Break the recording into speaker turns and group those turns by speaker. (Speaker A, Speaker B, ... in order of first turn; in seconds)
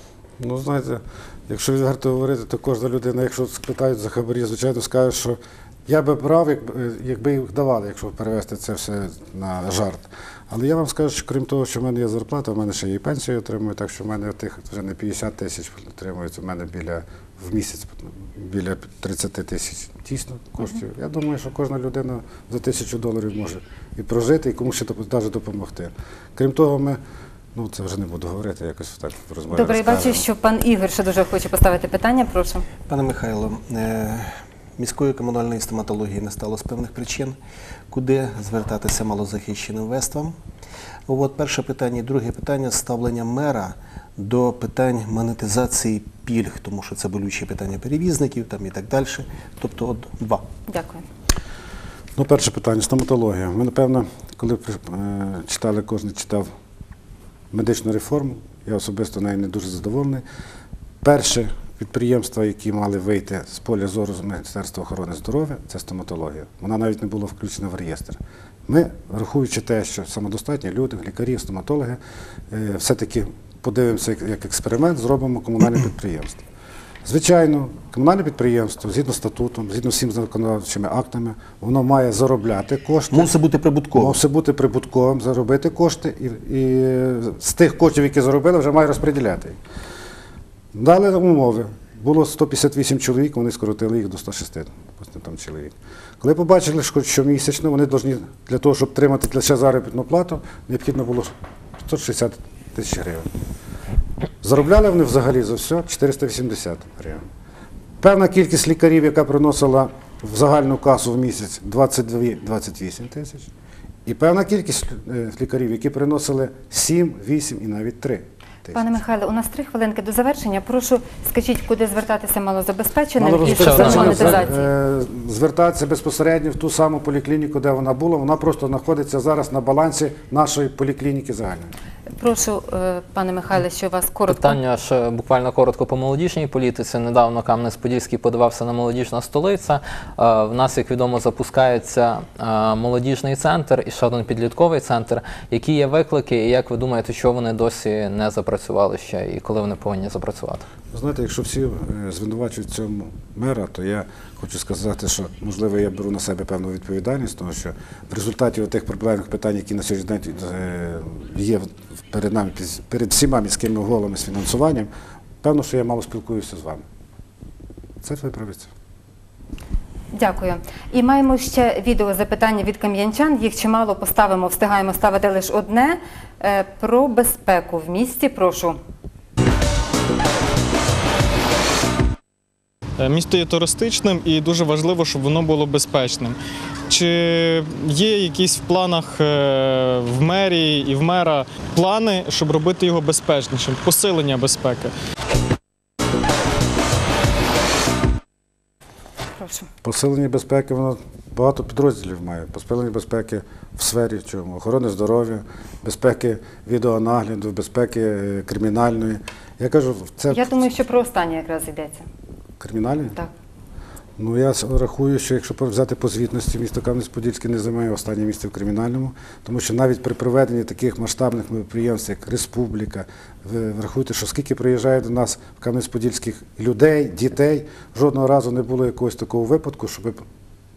Speaker A: 0.4-27.0, 27.6-30.2, 52.2-56.5, 57.5-60.2, 61.0-72.0, 72.5-76.4, 77.0-83.3, 84.0-89.6, 90.7-103.3, 104.4-107.2, 108.0-113.5, 114.1-119.0, 123.2-131.7, 150.9-164.9, 165.4-166.8, 168.0-168.7, 199.8-210.7, 212.6-213.2, 214.2-230.2
Speaker B: 29.5-32.7, 50.7-51.0, 118.7-124.7, 132.2-134.6, 170.1-178.8, 199.4-199.7, 210.3-212.1
Speaker C: 32.9-37.4, 37.9-40.4, 41.1-50.5, 83.1-84.2
Speaker D: 123.4-124.4, 134.3-150.7
Speaker E: 183.0-194.9